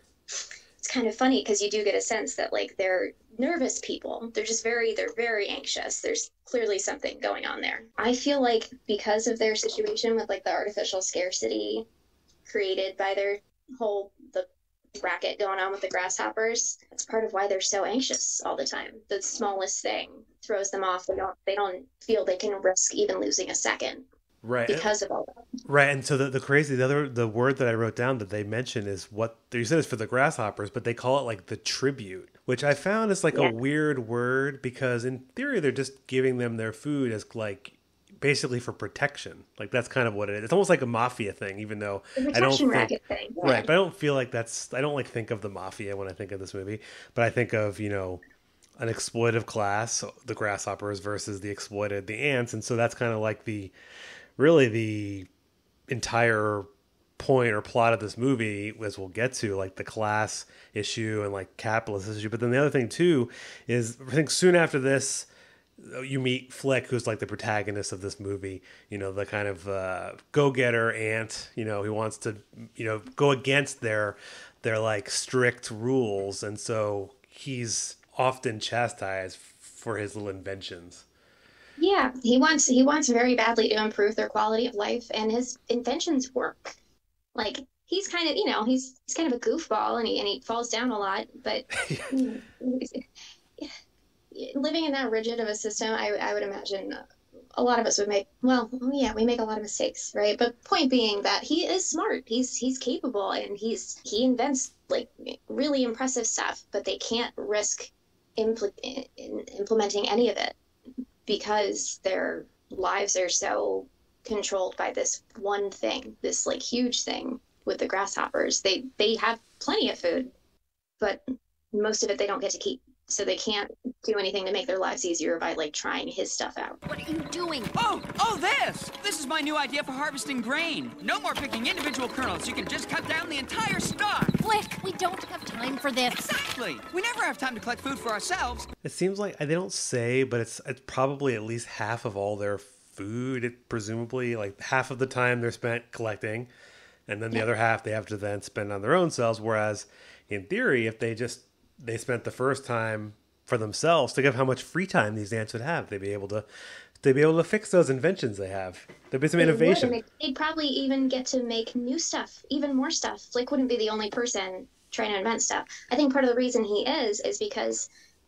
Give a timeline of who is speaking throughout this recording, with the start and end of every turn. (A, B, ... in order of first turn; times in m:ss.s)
0:00.8-0:11.9 A
0:12.5-0:14.5 A
0:15.0-0:24.0 A
0:24.4-0:24.9 B
0:24.7-0:25.3 A
0:25.7-0:48.2 B
0:42.2-0:43.7 A
0:48.8-0:53.7 B
0:54.4-0:55.3 B
0:55.9-0:56.7 B
0:57.2-1:05.3 B
1:05.8-1:21.1 B
1:21.8-1:26.8 A
1:27.4-1:33.0 A
1:31.8-1:32.1 B
1:34.3-1:37.0 A
1:37.6-1:50.6 A
1:51.3-2:00.3 A
2:01.0-2:06.8 A
2:06.9-2:07.7 C
2:07.7-2:14.4 D
2:14.4-2:16.3 C
2:16.1-2:18.7 D
2:18.8-2:26.5 B
2:27.1-2:36.5 B
2:37.0-2:40.0 B
2:39.4-2:47.9 A